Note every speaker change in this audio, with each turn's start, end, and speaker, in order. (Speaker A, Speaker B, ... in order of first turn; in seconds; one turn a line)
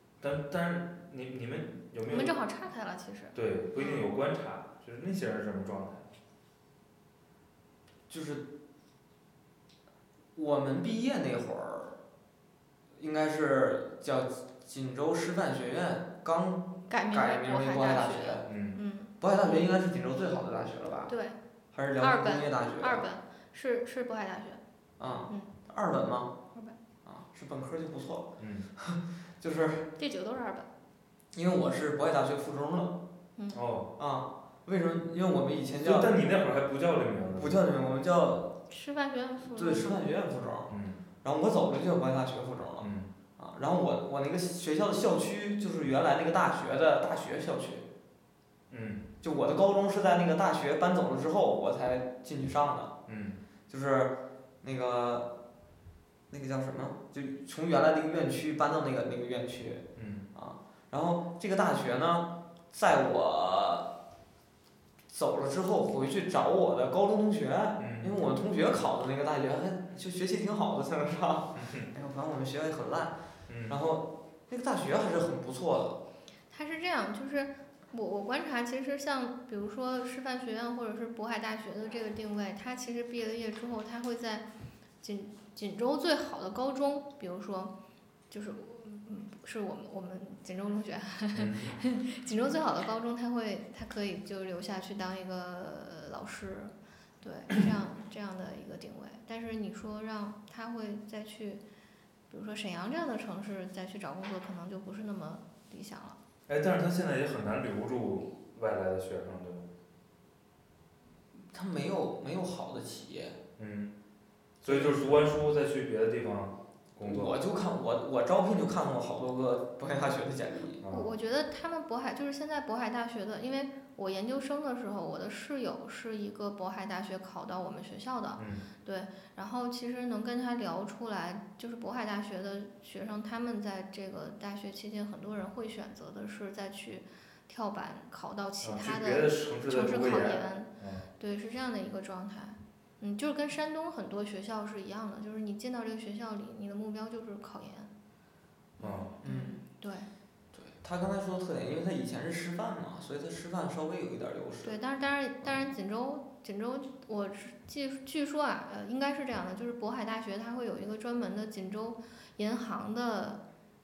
Speaker A: 0.2-2.3
Speaker B: 2.1-4.0
Speaker A: 3.3-6.1
Speaker C: 8.1-8.5
Speaker C: 10.3-11.9
Speaker C: 12.9-18.5
Speaker B: 16.9-19.1
Speaker A: 18.4-18.8
Speaker C: 19.2-21.1
Speaker B: 21.1-21.4
Speaker C: 21.7-23.0
Speaker B: 22.0-24.6
Speaker C: 25.0-26.3
Speaker C: 27.0-29.9
Speaker A: 28.4-28.7
Speaker B: 30.0-30.7
Speaker C: 31.3-33.0
Speaker B: 33.4-33.6
Speaker A: 33.5-33.9
Speaker C: 34.0-36.2
Speaker A: 35.8-37.6
Speaker C: 37.3-38.5
Speaker B: 38.7-40.0
Speaker C: 39.5-40.7
Speaker A: 40.7-41.0
Speaker C: 41.2-47.9
Speaker A: 42.8-43.1
Speaker A: 48.7-49.1
Speaker C: 49.2-52.9
Speaker A: 53.1-53.4
Speaker C: 53.7-55.3
Speaker C: 56.3-63.9
Speaker A: 60.0-60.3
Speaker C: 65.1-76.0
Speaker A: 67.8-68.2
Speaker A: 71.5-71.9
Speaker A: 73.5-73.8
Speaker B: 76.5-84.5
Speaker B: 85.0-87.7
Speaker B: 88.3-101.6
Speaker A: 91.3-91.8
Speaker B: 102.3-106.2
Speaker A: 106.5-109.6
Speaker C: 111.3-113.4
Speaker A: 113.6-113.9
Speaker A: 114.6-117.4
Speaker C: 114.6-115.1
Speaker C: 117.0-120.8
Speaker A: 120.8-121.1
Speaker B: 120.9-147.9
Speaker A: 128.4-128.7
Speaker A: 138.6-141.1
Speaker B: 148.8-150.1
Speaker A: 148.8-149.2
Speaker C: 149.2-149.6
Speaker C: 150.5-154.8
Speaker B: 154.6-163.4